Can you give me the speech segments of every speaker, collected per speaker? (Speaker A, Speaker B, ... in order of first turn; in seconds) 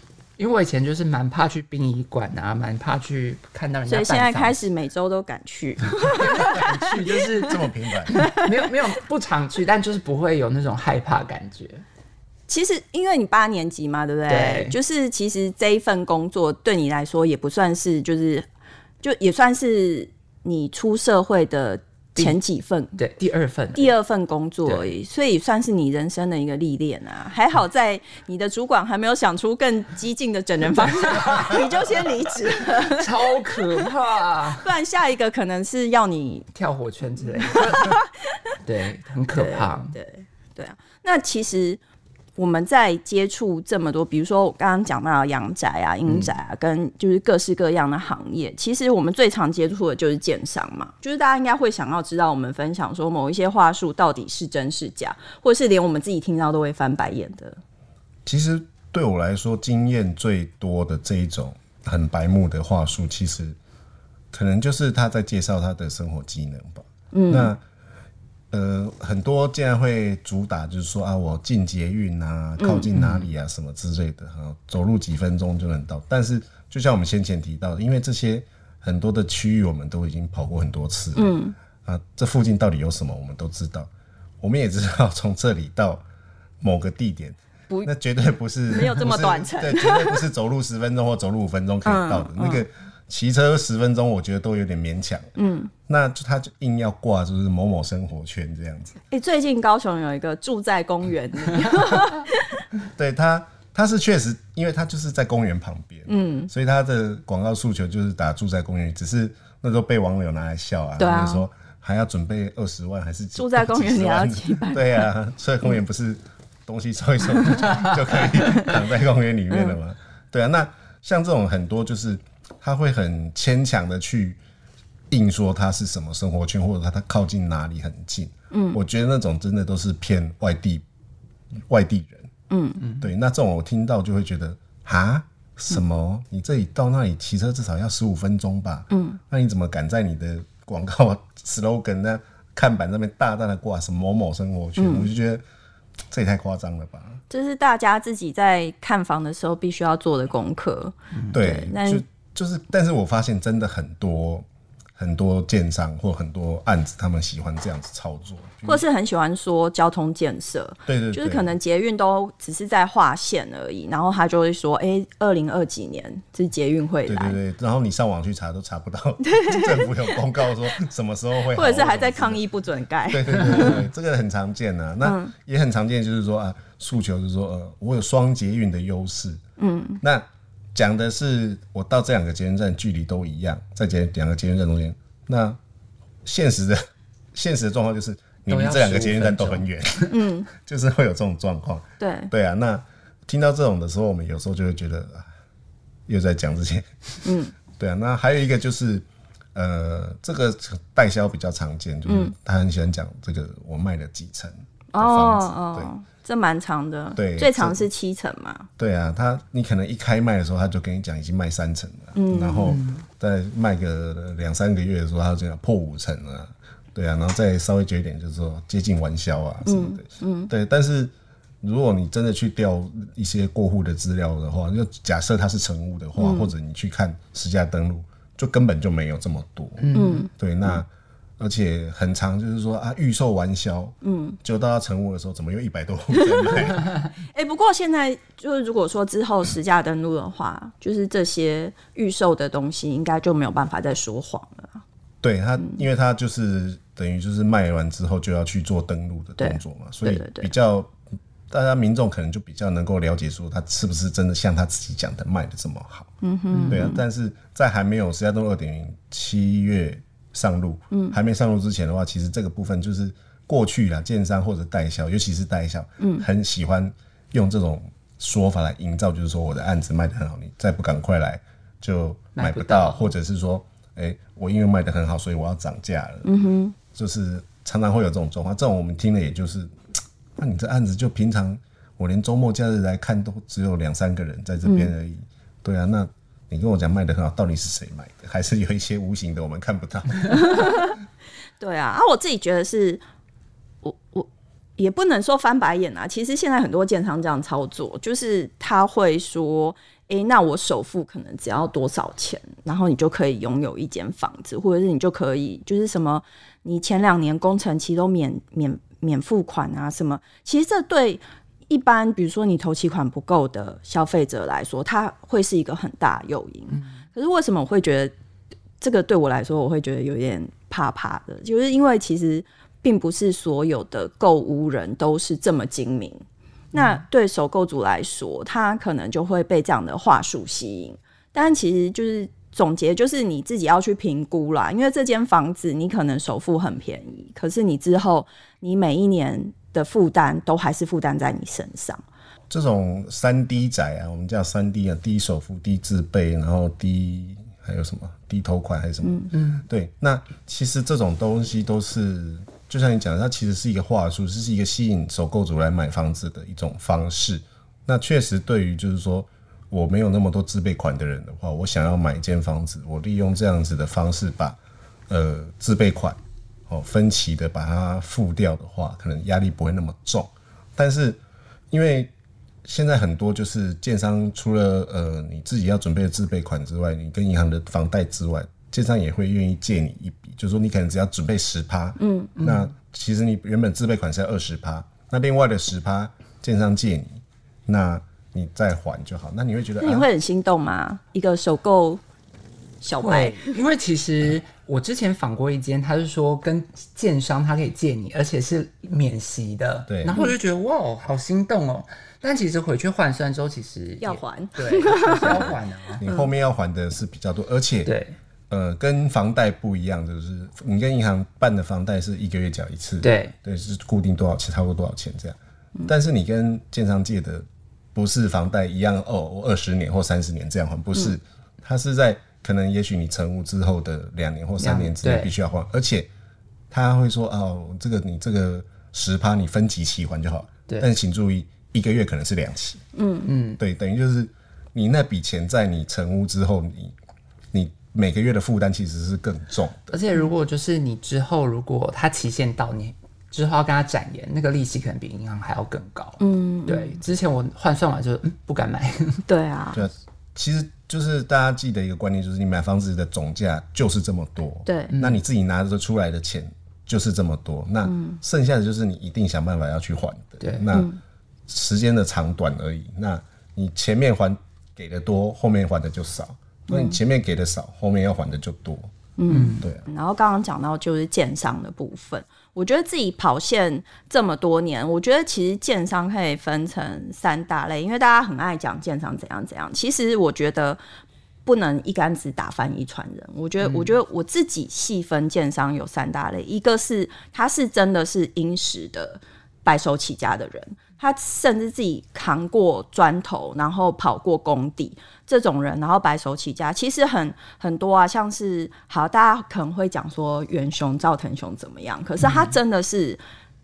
Speaker A: 0.4-4.6, 6.1-11.8, 14.3-14.7, 22.9-23.9, 32.8-34.7, 36.5-38.0, 38.6-39.9, 72.9-73.3, 132.8-133.1, 188.5-190.1, 212.6-213.0, 229.8-230.2, 256.5-256.9, 272.4-273.1, 326.7-327.0, 349.3-349.7, 382.4-382.7, 393.0-406.0, 407.9-408.2, 413.0-413.3, 424.6-425.3, 433.2-433.6, 439.9-449.2, 454.9-455.2, 460.4-460.7, 469.3-469.7, 483.6-483.9, 502.2-502.5
Speaker B: 3.9-7.3, 8.1-8.5, 12.5-18.5, 19.0-23.0, 23.8-33.2, 34.6-36.5, 37.4-38.2, 39.3-41.8, 42.4-57.6, 67.1-67.5, 72.6-72.9, 81.2-81.5, 88.7-90.3, 91.8-92.6, 95.4-95.7, 99.1-102.6, 106.1-106.5, 111.0-111.5, 113.3-115.1, 118.2-118.8, 119.5-119.8, 128.5-128.8, 132.5-132.8, 138.9-139.2, 144.8-145.1, 147.3-152.0, 158.6-167.4, 169.2-170.1, 171.5-173.9, 175.0-175.3, 179.6-180.0, 190.1-190.5, 192.0-192.3, 197.2-197.5, 202.1-202.3, 204.9-208.7, 212.1-212.7, 219.7-220.5, 226.2-226.5, 229.9-230.3, 234.0-234.4, 236.1-244.8, 249.4-250.5, 256.2-257.0, 260.9-261.2, 266.0-266.2, 276.2-276.7, 284.6-284.9, 290.3-291.0, 291.6-293.0, 293.8-318.1, 318.8-326.2, 326.7-342.0, 349.0-349.3, 382.0-382.3, 389.8-392.0, 392.8-393.6, 404.0-406.3, 432.9-433.3, 446.2-447.0, 449.3-449.9, 454.6-454.9, 457.8-458.2, 460.7-461.0, 466.7-467.0, 469.2-480.8, 481.4-503.2
Speaker C: 7.4-8.2, 58.2-63.5, 64.3-67.6, 68.5-83.9, 84.4-86.0, 86.6-95.3, 95.9-99.0, 103.0-124.4, 125.1-130.8, 131.7-132.3, 133.0-145.4, 146.1-147.2, 151.3-154.4, 155.0-158.8, 160.9-161.5, 167.1-172.4, 173.1-179.4, 180.0-185.6, 186.2-186.8, 187.3-195.2, 196.1-196.9, 197.8-205.9, 207.2-207.9, 208.8-230.9, 231.4-236.9, 245.2-250.9, 251.5-256.1, 256.7-276.3, 276.9-279.7, 280.4-290.9, 342.5-364.6, 365.1-366.2, 366.7-371.2, 371.7-372.1, 372.6-390.1, 399.9-400.2, 406.0-407.9, 408.5-426.1, 426.7-432.8, 433.6-436.9, 437.5-440.0, 449.7-460.9, 461.5-468.9